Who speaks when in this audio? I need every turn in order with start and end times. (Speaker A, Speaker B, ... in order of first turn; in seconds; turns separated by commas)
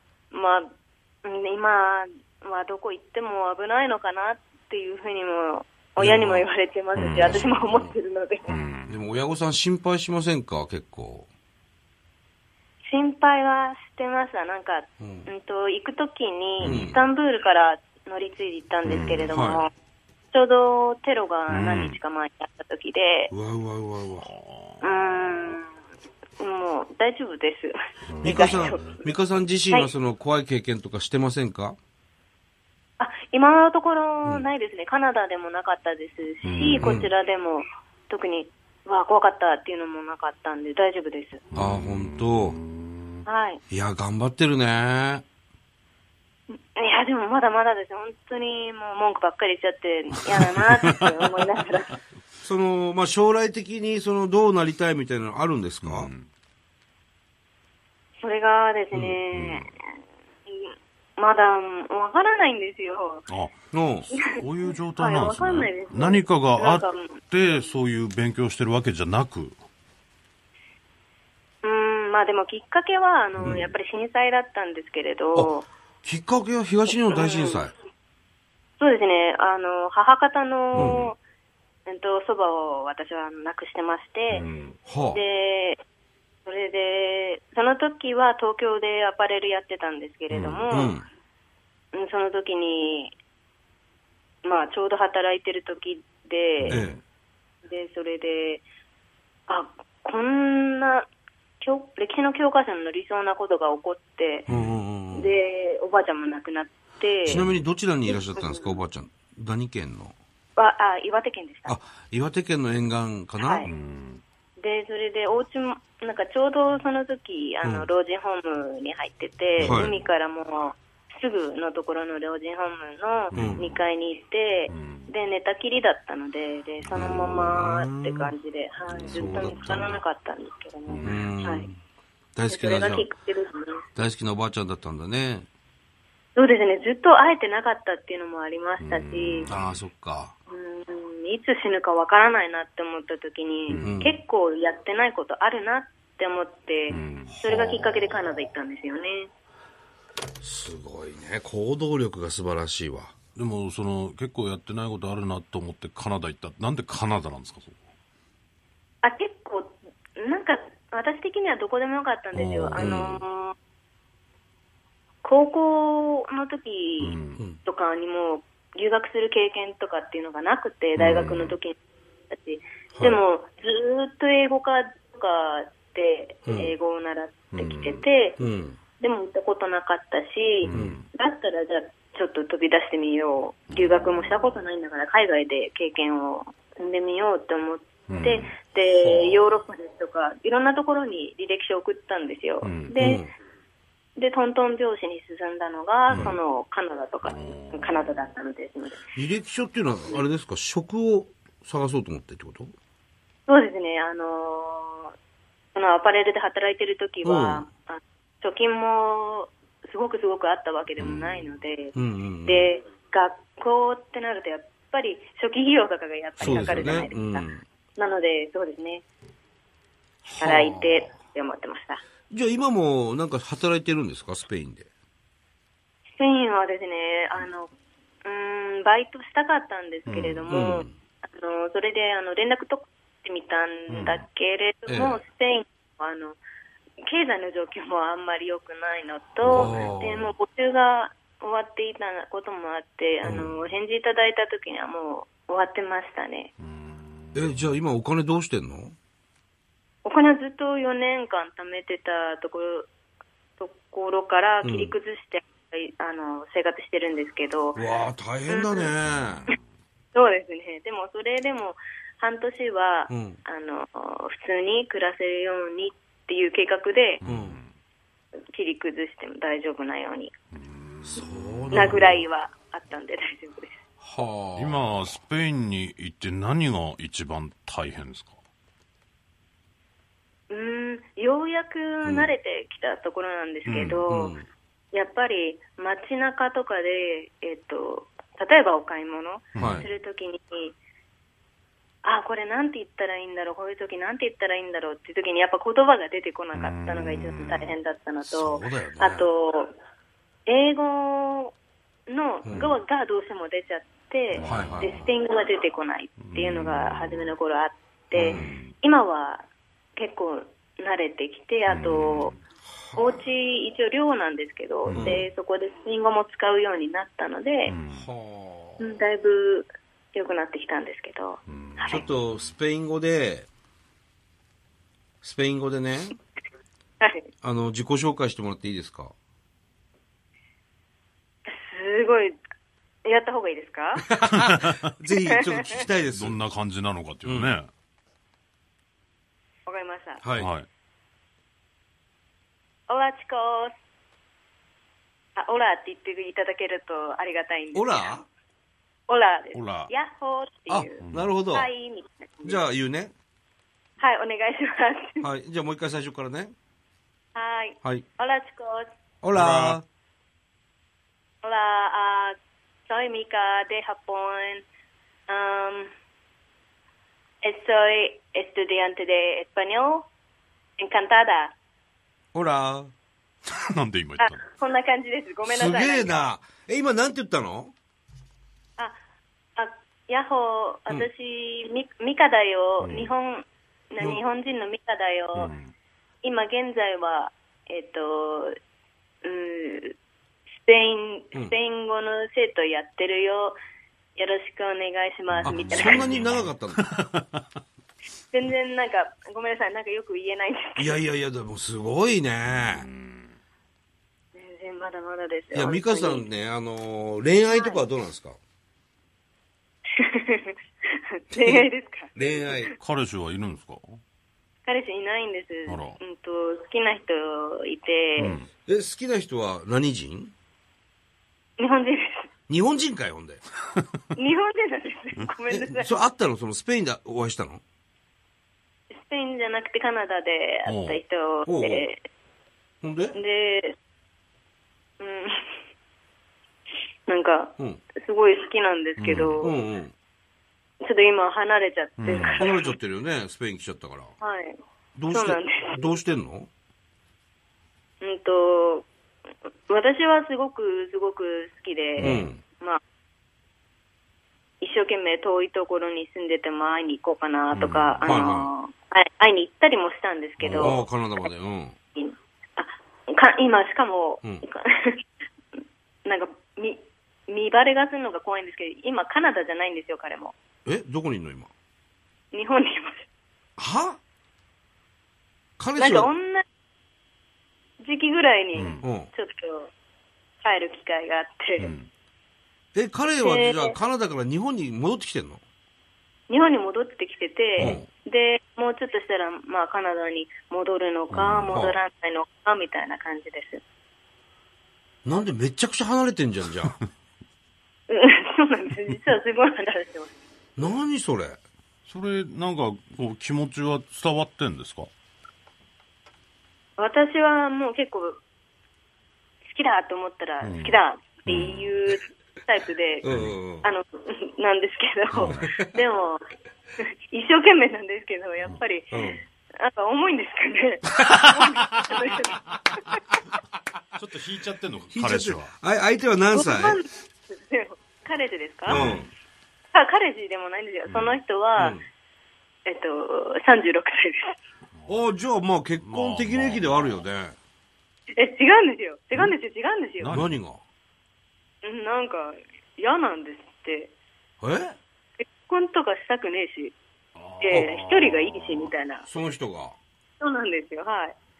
Speaker A: 0.3-0.7, Speaker A: 1.2-8.5, Speaker B: 6.0-6.5, Speaker C: 7.0-7.9, Speaker B: 7.2-7.9, Speaker C: 8.5-8.9, Speaker B: 8.9-11.3, Speaker A: 12.9-19.7, Speaker B: 15.0-15.3, Speaker C: 16.6-16.9, Speaker B: 16.6-17.0, Speaker C: 18.9-19.4, Speaker B: 19.3-19.7, Speaker A: 20.3-23.3, Speaker C: 21.5-22.0, Speaker B: 23.3-24.3, Speaker C: 24.2-25.5, Speaker A: 24.8-25.7, Speaker A: 26.4-29.1, Speaker C: 28.1-28.9, Speaker B: 28.2-31.8, Speaker A: 33.0-41.4, Speaker C: 36.4-37.0, Speaker B: 36.8-37.1, Speaker C: 41.5-43.2, Speaker B: 41.5-42.6, Speaker A: 43.3-43.6, Speaker B: 43.7-45.2, Speaker A: 46.5-52.0, Speaker C: 50.4-51.0, Speaker B: 52.4-56.1, Speaker C: 55.8-56.3, Speaker A: 58.2-59.8, Speaker B: 58.9-59.2, Speaker C: 59.3-59.7, Speaker A: 60.5-63.3, Speaker C: 63.3-63.6, Speaker B: 63.7-64.1, Speaker C: 64.1-69.6, Speaker A: 64.1-67.7, Speaker A: 71.6-75.7, Speaker B: 73.4-73.7, Speaker B: 75.3-77.7, Speaker A: 76.9-77.7, Speaker A: 78.8-81.2, Speaker C: 80.7-81.1, Speaker B: 80.7-81.0, Speaker A: 81.9-84.4, Speaker C: 84.3-84.8, Speaker B: 84.9-85.2, Speaker A: 85.1-85.8, Speaker A: 86.5-91.0, Speaker C: 90.3-90.7, Speaker B: 90.7-91.0, Speaker A: 91.9-93.2, Speaker A: 94.4-96.8, Speaker C: 96.6-97.0, Speaker B: 96.7-97.0, Speaker A: 97.7-98.6, Speaker A: 99.5-101.1, Speaker A: 101.6-104.5, Speaker C: 104.5-104.8, Speaker B: 104.5-105.3, Speaker A: 105.1-107.5, Speaker B: 107.2-110.2, Speaker C: 107.3-107.6, Speaker A: 108.1-108.8, Speaker A: 110.6-111.8, Speaker B: 111.7-113.7, Speaker A: 113.4-113.7, Speaker C: 113.7-114.2, Speaker A: 114.6-131.7, Speaker B: 117.6-117.9, Speaker C: 119.6-120.0, Speaker B: 119.6-120.0, Speaker C: 123.3-123.8, Speaker B: 123.3-123.6, Speaker C: 124.7-125.1, Speaker C: 126.9-127.5, Speaker B: 126.9-128.3, Speaker C: 128.9-130.0, Speaker B: 129.1-130.0, Speaker C: 130.9-131.3, Speaker B: 131.0-131.8, Speaker B: 132.3-133.1, Speaker A: 132.5-133.8, Speaker B: 134.0-135.5, Speaker A: 136.4-139.5, Speaker C: 138.8-139.8, Speaker B: 139.5-140.3, Speaker A: 140.5-149.3, Speaker C: 143.7-144.1, Speaker B: 143.8-144.2, Speaker C: 146.9-147.9, Speaker B: 150.4-153.1, Speaker C: 153.4-157.8, Speaker A: 159.0-163.5, Speaker C: 162.3-162.8, Speaker B: 162.8-163.2, Speaker A: 165.2-171.8, Speaker C: 167.0-167.4, Speaker B: 171.0-171.5, Speaker A: 172.3-178.4, Speaker B: 172.9-173.2, Speaker B: 176.5-176.7, Speaker C: 177.5-178.0, Speaker B: 178.4-178.8, Speaker A: 179.0-193.3, Speaker C: 180.6-181.1, Speaker B: 180.7-181.0, Speaker C: 188.1-188.5, Speaker B: 188.9-189.5, Speaker C: 192.6-193.0, Speaker B: 193.0-193.3, Speaker A: 194.2-199.0, Speaker C: 196.1-196.4, Speaker B: 196.1-196.4, Speaker C: 197.2-198.2, Speaker B: 199.2-202.7, Speaker A: 203.5-205.1, Speaker A: 205.8-217.5, Speaker B: 207.2-207.7, Speaker C: 211.0-211.5, Speaker B: 211.9-212.7, Speaker C: 216.4-217.1, Speaker B: 216.4-217.7, Speaker A: 218.0-219.0, Speaker B: 220.2-221.1, Speaker A: 220.4-222.0, Speaker B: 222.3-224.9, Speaker A: 226.2-227.7, Speaker A: 228.2-236.4, Speaker C: 230.1-230.6, Speaker B: 230.5-230.9, Speaker C: 233.9-234.2, Speaker B: 234.9-235.2, Speaker A: 237.0-246.5, Speaker C: 239.4-240.0, Speaker B: 239.5-240.3, Speaker B: 243.2-243.5, Speaker C: 246.6-247.6, Speaker B: 247.3-248.9, Speaker A: 250.1-252.9, Speaker A: 253.6-257.8, Speaker B: 254.6-254.9, Speaker B: 257.8-259.5, Speaker A: 258.5-258.9, Speaker A: 260.1-267.2, Speaker B: 263.1-263.4, Speaker C: 267.2-267.7, Speaker B: 267.2-267.6, Speaker A: 268.5-270.3, Speaker C: 270.5-272.0, Speaker B: 271.0-272.3, Speaker A: 271.7-273.8, Speaker B: 274.0-275.2, Speaker C: 274.6-278.4, Speaker A: 280.5-284.4, Speaker B: 282.0-282.4, Speaker C: 283.7-284.0, Speaker B: 284.0-284.5, Speaker A: 284.9-290.8, Speaker C: 289.6-289.9, Speaker B: 289.6-289.9, Speaker A: 292.0-299.7, Speaker C: 296.5-297.7, Speaker B: 298.3-299.3, Speaker A: 300.5-301.5, Speaker A: 302.1-312.3, Speaker B: 302.4-302.7, Speaker C: 304.4-305.0, Speaker B: 304.4-305.1, Speaker C: 306.2-307.4, Speaker B: 308.1-308.6, Speaker C: 308.3-308.7, Speaker C: 311.7-312.4, Speaker B: 312.7-313.3, Speaker A: 313.0-317.8, Speaker C: 314.9-315.2, Speaker B: 314.9-315.2, Speaker C: 317.7-318.1, Speaker B: 317.9-318.9, Speaker A: 318.8-322.1, Speaker C: 321.5-322.5, Speaker B: 321.9-323.5, Speaker B: 325.2-326.2, Speaker A: 327.0-327.3, Speaker B: 327.4-329.1, Speaker A: 331.5-332.4, Speaker A: 333.1-334.1, Speaker B: 334.1-336.4, Speaker C: 334.3-334.9, Speaker A: 335.3-335.8, Speaker C: 336.1-337.7, Speaker B: 337.2-337.5, Speaker A: 339.7-340.2, Speaker B: 340.2-340.5, Speaker C: 340.4-340.7, Speaker A: 342.9-343.7, Speaker A: 345.4-348.1, Speaker B: 347.7-348.3, Speaker A: 349.1-352.6, Speaker C: 349.5-349.9, Speaker B: 350.7-351.7, Speaker C: 351.0-351.3, Speaker B: 352.4-353.1, Speaker A: 354.0-355.3, Speaker B: 355.2-356.5, Speaker A: 357.4-358.9, Speaker B: 359.2-359.9, Speaker C: 359.3-359.8, Speaker A: 361.4-362.4, Speaker A: 362.9-364.6, Speaker A: 365.3-365.9, Speaker A: 367.4-370.1, Speaker A: 370.8-371.6, Speaker B: 372.3-372.9, Speaker C: 373.5-374.4, Speaker A: 374.2-376.3, Speaker B: 375.4-377.7, Speaker A: 379.6-385.5, Speaker C: 382.8-383.1, Speaker C: 385.4-385.7, Speaker A: 386.2-388.6, Speaker A: 389.2-389.9, Speaker A: 390.6-393.6, Speaker A: 394.2-396.1, Speaker C: 395.3-397.4, Speaker B: 395.4-396.8, Speaker A: 398.3-401.0, Speaker B: 400.8-402.9, Speaker C: 402.5-403.4, Speaker A: 404.4-406.3, Speaker B: 405.5-408.4, Speaker A: 407.5-407.8, Speaker A: 409.9-412.8, Speaker B: 411.4-412.8, Speaker C: 412.8-414.0, Speaker A: 414.7-418.4, Speaker C: 415.7-416.0, Speaker C: 418.2-418.5, Speaker B: 418.6-420.3, Speaker A: 421.6-422.3, Speaker B: 422.5-423.4, Speaker A: 424.1-426.0, Speaker B: 425.7-427.6, Speaker A: 428.9-432.0, Speaker C: 430.6-431.0, Speaker B: 431.4-431.9, Speaker B: 432.8-433.2, Speaker A: 433.1-433.7, Speaker A: 435.0-435.6, Speaker A: 437.1-439.6, Speaker B: 437.6-437.8, Speaker B: 439.0-439.9, Speaker A: 440.8-442.8, Speaker C: 442.0-442.4, Speaker B: 442.1-444.1, Speaker A: 444.2-444.6, Speaker B: 445.0-446.5, Speaker A: 445.1-445.8, Speaker A: 448.0-448.9, Speaker A: 449.7-452.8, Speaker C: 452.0-452.3, Speaker B: 452.0-452.4, Speaker A: 454.6-460.8, Speaker C: 457.5-458.3, Speaker B: 458.0-458.5, Speaker C: 460.4-460.8, Speaker B: 460.5-461.8, Speaker A: 462.0-465.0, Speaker A: 466.1-470.3, Speaker B: 470.7-471.5, Speaker A: 472.3-473.1, Speaker B: 473.6-474.0, Speaker B: 475.6-476.1, Speaker A: 475.8-476.4, Speaker A: 477.8-479.7, Speaker C: 478.5-478.9, Speaker B: 478.8-479.1, Speaker A: 480.4-481.7, Speaker C: 481.6-481.9, Speaker B: 482.8-485.4, Speaker A: 483.2-483.8, Speaker A: 486.3-493.6, Speaker B: 487.6-487.9, Speaker C: 491.1-491.6, Speaker B: 491.5-491.8, Speaker B: 495.1-496.8, Speaker A: 497.9-500.1, Speaker B: 500.6-501.4, Speaker C: 501.9-504.9, Speaker A: 506.8-508.2, Speaker A: 509.5-513.1, Speaker C: 510.4-511.7, Speaker B: 513.0-513.7, Speaker C: 513.1-513.3, Speaker A: 513.6-516.2, Speaker C: 515.1-515.5, Speaker B: 515.2-515.7, Speaker A: 516.8-523.0, Speaker B: 518.9-519.2, Speaker C: 524.0-525.5, Speaker B: 524.9-526.8, Speaker A: 526.3-528.9, Speaker C: 528.7-529.1, Speaker B: 528.7-529.1, Speaker A: 529.7-531.8, Speaker C: 530.9-531.2, Speaker B: 531.6-531.8, Speaker A: 532.7-534.3, Speaker C: 534.8-535.0, Speaker B: 534.9-537.4, Speaker C: 535.8-537.0, Speaker A: 538.2-540.2, Speaker C: 540.0-540.3, Speaker B: 540.1-540.6, Speaker A: 541.6-543.9, Speaker B: 544.4-544.8, Speaker A: 545.2-546.8, Speaker C: 547.1-548.7, Speaker A: 547.4-549.1, Speaker B: 549.0-549.8, Speaker A: 550.2-551.1